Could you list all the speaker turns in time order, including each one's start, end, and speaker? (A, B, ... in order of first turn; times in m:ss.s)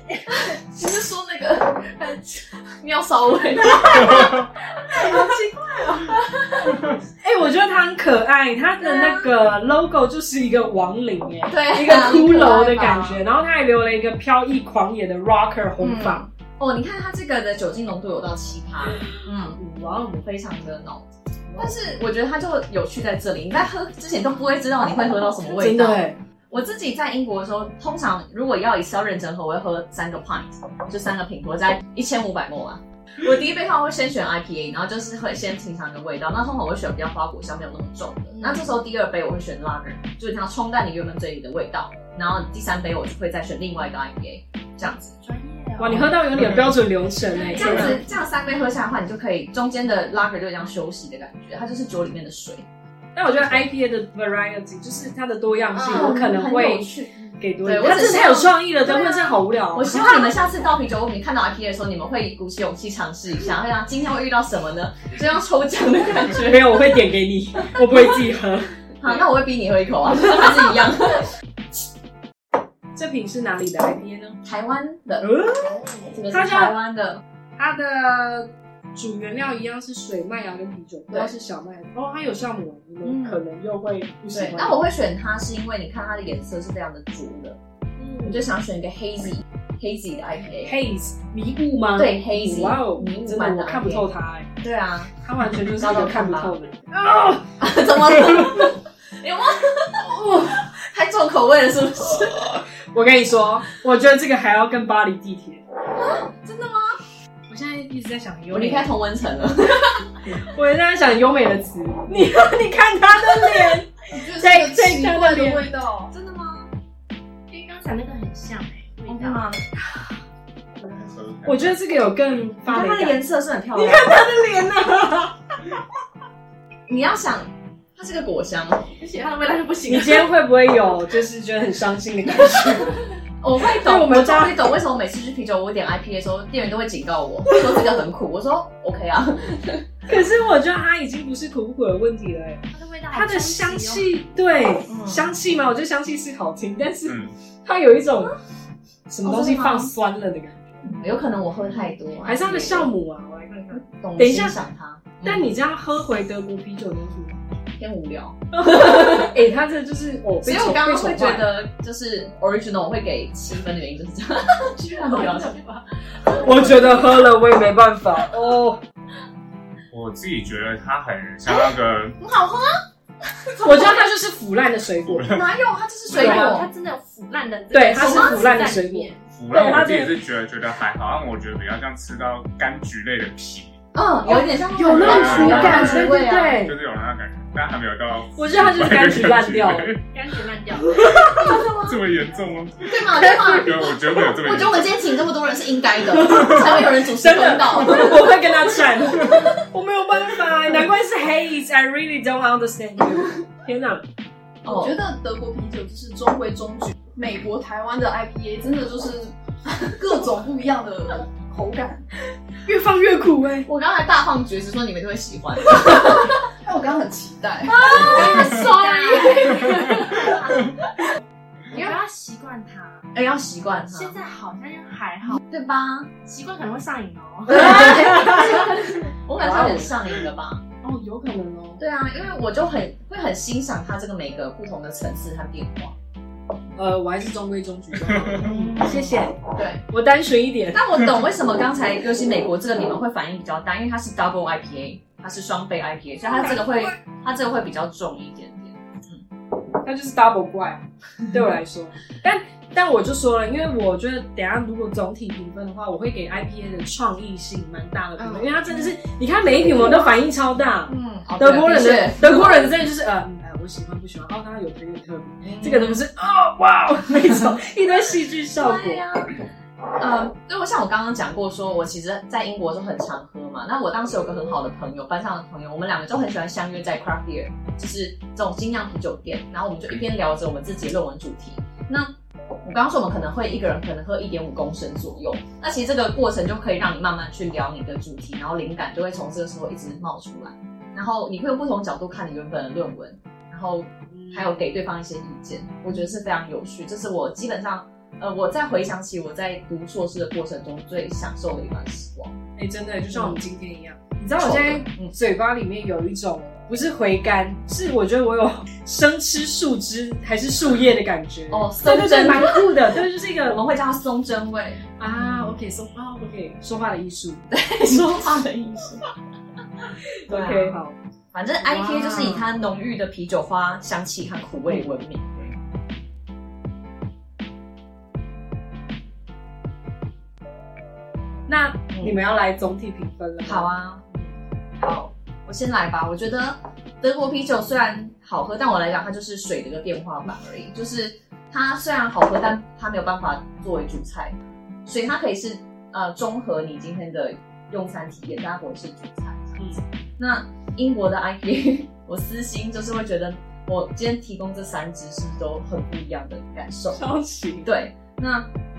0:00.3-0:05.3 A
0:05.0-0:06.1 B
0:05.0-0:05.3 C
0:06.0-0:06.9 A
0:07.2-0:16.2 C
0:08.8-0:09.3 A
0:11.5-0:13.2 A
0:15.8-0:19.6 A
0:19.5-0:20.2 C
0:20.1-0:45.1 A
0:21.5-0:21.7 C
0:25.5-0:26.2 C
0:45.2-0:46.5 B
0:45.8-0:48.0 C
0:47.3-0:48.1 B
0:47.5-0:52.7 A
0:53.2-1:00.2 C
0:53.3-0:53.6 A
0:55.8-0:56.1 B
0:55.8-1:06.9 A
1:06.4-1:08.8 C
1:07.8-1:08.1 A
1:09.0-1:11.3 A
1:13.0-1:14.4 C
1:14.4-1:15.3 A
1:15.2-1:16.8 C
1:16.1-1:17.2 A
1:17.6-1:24.8 C
1:23.0-1:23.4 A
1:24.3-1:27.6 A
1:28.0-1:28.5 C
1:28.2-1:30.8 A
1:30.6-1:34.5 C
1:32.0-1:34.1 A
1:34.6-1:36.6 A
1:35.2-1:37.5 C
1:37.6-1:42.6 A
1:42.9-1:45.6 C
1:46.0-1:47.0 A
1:47.5-1:48.9 C
1:48.5-1:50.2 A
1:50.2-1:55.7 C
1:54.1-1:56.1 D
1:56.1-1:56.7 A
1:57.5-1:59.5 B
1:59.1-1:59.6 A
2:01.0-2:01.8 E
2:01.4-2:03.2 C
2:02.7-2:04.3 A
2:03.7-2:05.7 C
2:06.9-2:08.9 A
2:09.0-2:10.3 B
2:09.9-2:13.0 C
2:13.4-2:19.9 A
2:13.6-2:14.6 C
2:20.1-2:28.3 C
2:22.7-2:24.2 B
2:24.9-2:25.3 A
2:27.1-2:27.3 E
2:29.1-2:30.9 C
2:29.2-2:29.9 A
2:30.8-2:32.9 A
2:32.2-2:34.6 C
2:33.8-2:35.5 A
2:35.2-2:37.4 C
2:37.8-2:39.4 A
2:38.5-2:41.5 C
2:40.4-2:45.6 A
2:44.9-2:46.8 B
2:46.3-2:46.8 A
2:46.4-2:48.8 C
2:49.9-2:52.2 E
2:52.2-2:52.8 A
2:53.4-2:54.0 A
2:53.6-2:55.4 C
2:55.1-2:55.4 E
2:55.3-2:56.7 A
2:56.1-2:56.6 C
2:56.2-2:59.3 B
2:57.7-3:00.1 C
2:58.0-2:58.5 A
2:59.3-3:03.8 E
3:03.9-3:06.6 A
3:04.3-3:06.8 C
3:05.0-3:10.0 E
3:05.5-3:06.0 B
3:08.4-3:10.0 C
3:10.1-3:11.0 B
3:11.0-3:11.4 C
3:11.3-3:12.0 A
3:11.6-3:15.0 E
3:12.9-3:18.5 A
3:16.2-3:24.1 C
3:24.6-3:25.0 A
3:24.6-3:32.1 D
3:32.7-3:33.7 C
3:33.7-3:36.4 A
3:36.6-3:37.9 D
3:37.7-3:40.7 A
3:37.8-3:40.7 B
3:41.7-3:42.0 A
3:41.7-3:43.1 B
3:43.1-3:44.2 A
3:43.9-3:45.4 B
3:45.3-3:46.1 A
3:46.2-3:48.2 B
3:47.5-3:50.6 A
3:48.0-3:48.4 C
3:49.4-3:50.0 C
3:50.8-3:51.8 C
3:51.8-3:56.0 A
3:56.8-3:59.4 C
3:58.4-3:59.8 A
3:59.9-4:00.8 C
4:00.7-4:09.2 A
4:09.8-4:29.1 C
4:18.3-4:18.8 B
4:20.9-4:22.7 A
4:25.4-4:26.0 A
4:28.6-4:29.4 A
4:30.0-4:42.1 A
4:42.6-5:02.4 A
4:54.1-4:54.6 C
5:02.6-5:13.6 C
5:03.1-5:03.4 A
5:04.4-5:05.2 A
5:11.5-5:12.8 A
5:13.5-5:15.6 A
5:15.0-5:18.1 C
5:17.5-5:19.0 A
5:20.2-5:21.0 C
5:20.3-5:20.8 A
5:21.3-5:25.6 A
5:21.6-5:22.5 C
5:31.5-5:33.7 C
5:31.9-5:32.2 A
5:33.4-5:34.2 A
5:34.8-5:57.1 A
5:56.9-5:57.7 C
5:57.6-5:58.5 A